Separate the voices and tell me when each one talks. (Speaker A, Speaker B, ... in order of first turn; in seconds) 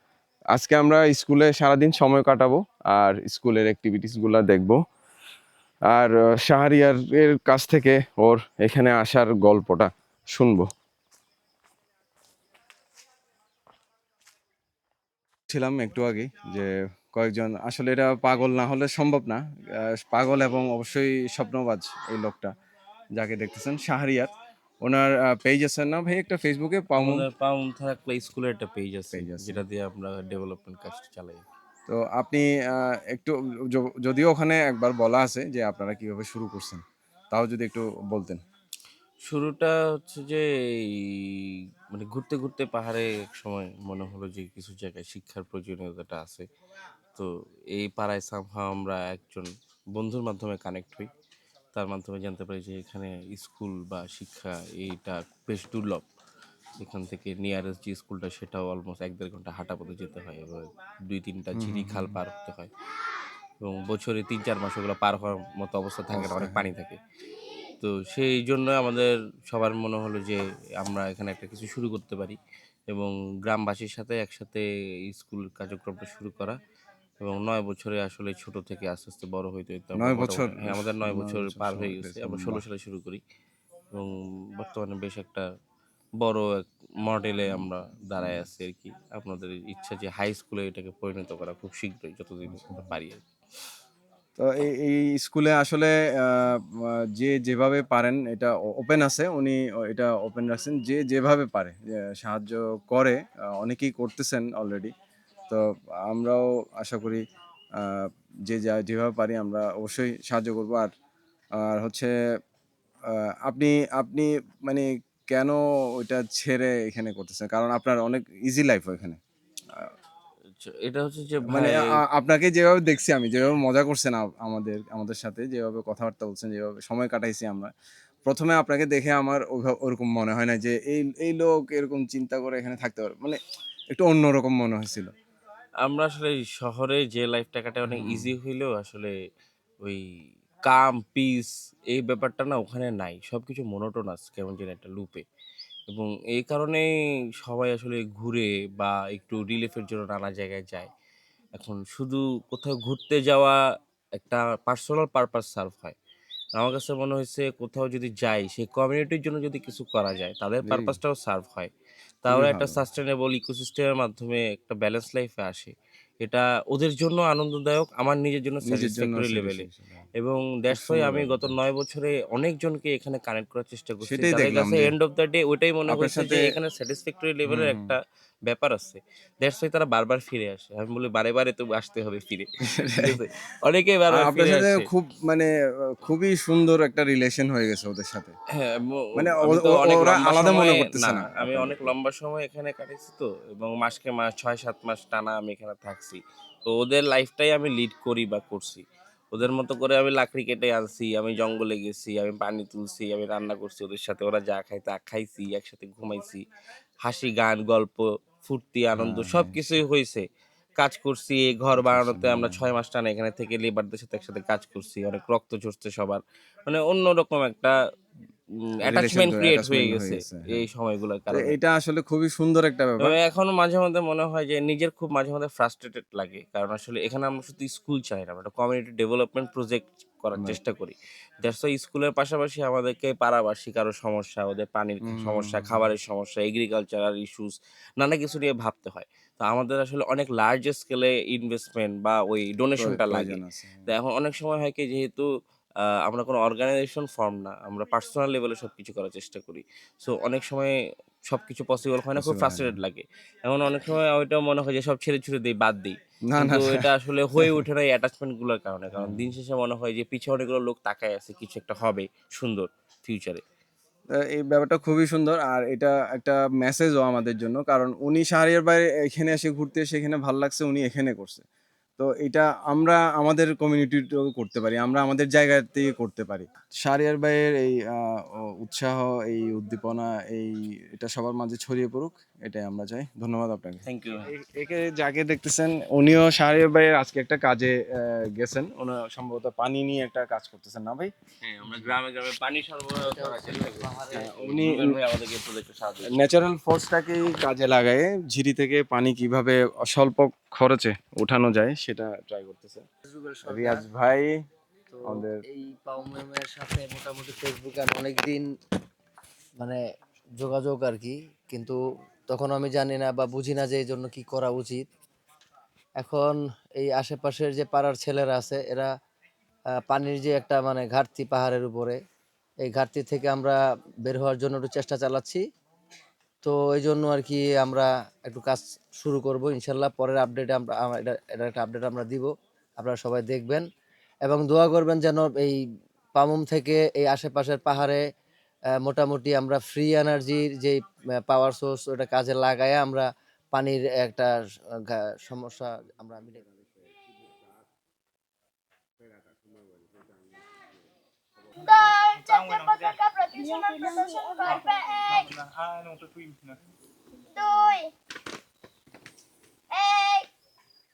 Speaker A: 0.5-4.8, 5.9-10.7, 15.5-22.5, 23.1-24.3, 24.8-27.3, 29.1-29.6, 31.9-38.4, 61.5-62.2, 66.1-66.7, 79.9-82.6, 94.4-104.9, 105.5-107.2, 107.8-110.9, 111.6-112.1, 113.1-119.2, 121.4-127.7, 128.2-133.4, 133.9-135.1, 137.9-138.3, 160.6-161.0, 162.3-162.8, 168.6-170.0, 170.7-171.6, 174.0-174.9, 175.9-176.5, 177.4-178.0, 182.7-183.2, 184.1-188.3, 189.1-191.9, 209.0-209.6, 211.8-212.7, 218.8-220.7, 221.3-223.2, 230.3-230.6, 235.0-235.8, 242.8-243.9, 252.2-252.8, 256.3-257.6, 258.9-259.3, 264.1-271.4, 272.0-291.1, 294.1-294.9, 296.1-302.8, 303.5-304.3, 305.1-305.4
Speaker B: 26.9-31.4, 39.2-46.5, 47.1-51.1, 51.7-56.0, 56.8-62.7, 63.6-67.0, 67.8-72.4, 72.9-76.6, 77.2-83.2, 83.9-85.5, 86.2-93.2, 120.6-122.0, 135.8-139.1, 140.6-145.2, 145.9-146.8, 147.4-150.9, 151.6-153.6, 154.2-155.9, 156.6-161.7, 162.2-169.7, 170.2-184.9, 188.6-206.4, 207.0-210.2, 210.8-217.8, 218.8-221.6, 223.0-245.3, 245.8-250.7, 251.3-263.4, 283.9-284.3, 291.4-296.3
Speaker C: 293.1-294.3, 303.1-303.8, 304.9-308.4, 310.4-314.9, 316.0-318.9, 319.8-322.0, 322.6-325.4, 326.4-333.6, 334.2-335.6, 336.1-338.0, 338.8-344.3, 344.9-346.4
Speaker D: 351.6-355.3, 357.3-357.9, 359.7-360.3